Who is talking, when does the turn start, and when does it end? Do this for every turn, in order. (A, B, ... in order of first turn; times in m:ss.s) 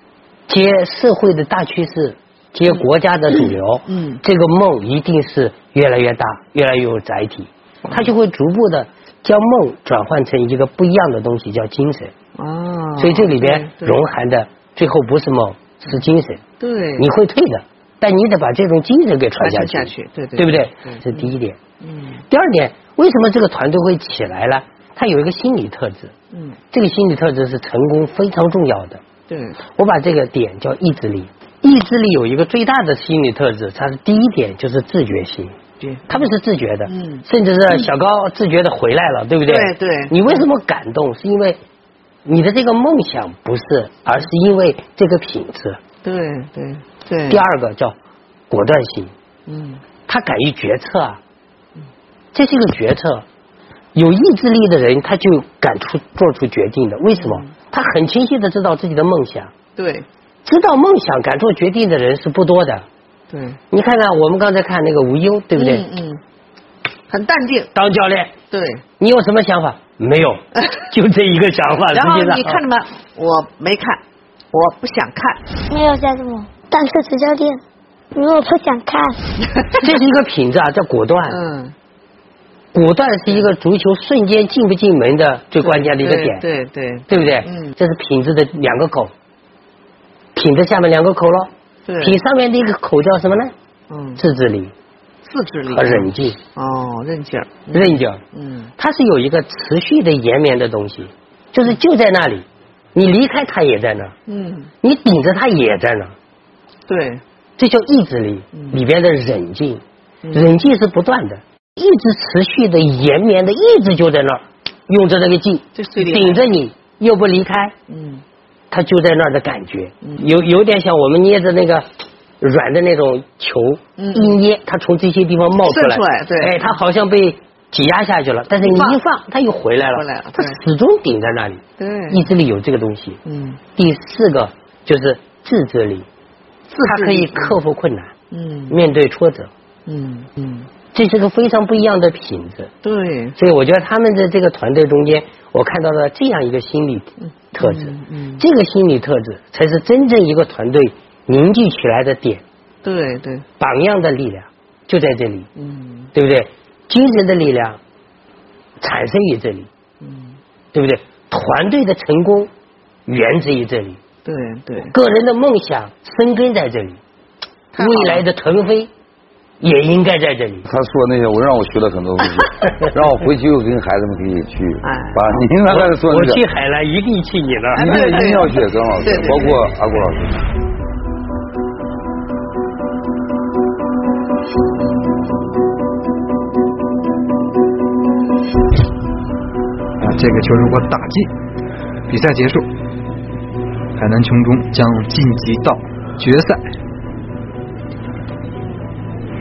0:00.5-0:12.1 A
0:03.9-0:04.2 B
0:07.8-0:08.1 B
0:12.4-0:14.0 B
0:13.0-0:16.4 A
0:16.6-0:17.1 B
0:17.0-0:21.6 A
0:19.4-0:22.2 B
0:22.3-0:26.1 A
0:26.7-0:29.0 A
0:29.3-0:29.6 B
0:29.7-0:35.6 A
0:35.8-0:36.3 B
0:36.1-0:41.6 A
0:36.9-0:37.9 B
0:39.4-0:40.4 B
0:42.2-0:45.8 A
0:46.0-0:47.4 B
0:47.3-0:48.0 A
0:48.5-0:49.1 A
0:49.5-0:49.8 B
0:50.1-0:51.2 A
0:52.3-0:53.2 A
0:53.9-0:59.5 A
0:57.1-0:57.5 B
0:59.8-1:00.0 B
1:00.4-1:02.8 A
1:03.3-1:03.6 B
1:03.7-1:05.8 A
1:05.5-1:06.2 B
1:07.1-1:07.8 B
1:07.7-1:08.3 A
1:08.5-1:08.8 B
1:09.0-1:12.6 A
1:11.9-1:14.0 B
1:14.5-1:15.4 B
1:15.7-1:17.6 C
1:18.1-1:19.2 C
1:19.8-1:21.4 A
1:21.3-1:21.7 B
1:22.7-1:26.4 A
1:25.6-1:27.7 B
1:27.1-1:29.1 A
1:30.3-1:33.5 A
1:31.8-1:32.2 B
1:33.9-1:34.2 B
1:34.2-1:34.7 A
1:35.2-1:38.7 B
1:35.7-1:36.4 A
1:37.7-1:38.2 A
1:38.8-1:44.1 A
1:44.3-1:44.7 B
1:44.8-1:46.1 A
1:46.9-1:47.2 B
1:47.6-1:49.8 A
1:48.5-1:48.8 B
1:50.2-1:50.6 B
1:50.3-1:57.7 A
1:55.8-1:56.4 B
1:57.9-1:58.2 B
1:58.7-2:01.9 A
2:02.4-2:13.2 A
2:04.0-2:04.4 B
2:05.6-2:06.7 B
2:08.6-2:09.0 B
2:09.9-2:10.6 B
2:11.8-2:12.2 B
2:13.2-2:13.6 B
2:13.8-2:16.0 A
2:16.7-2:17.6 B
2:16.8-2:18.1 A
2:18.3-2:18.8 B
2:18.7-2:19.5 A
2:19.8-2:20.7 B
2:20.9-2:22.7 A
2:22.8-2:23.4 B
2:23.4-2:32.4 A
2:27.2-2:28.4 B
2:32.8-2:33.4 B
2:33.6-2:35.5 A
2:35.6-2:36.1 B
2:36.1-2:37.8 A
2:38.8-2:39.7 A
2:40.0-2:40.4 B
2:40.7-2:42.5 A
2:43.0-2:44.0 A
2:44.2-2:44.9 B
2:44.9-2:47.0 A
2:47.7-2:48.2 B
2:47.8-2:48.9 A
2:49.6-2:50.6 A
2:50.6-2:56.4 D
2:54.8-2:55.8 B
2:55.8-2:58.2 A
2:57.7-2:59.6 B
2:57.8-3:00.5 D
3:10.0-3:11.3 E
3:12.1-3:12.6 E
3:14.0-3:16.6 E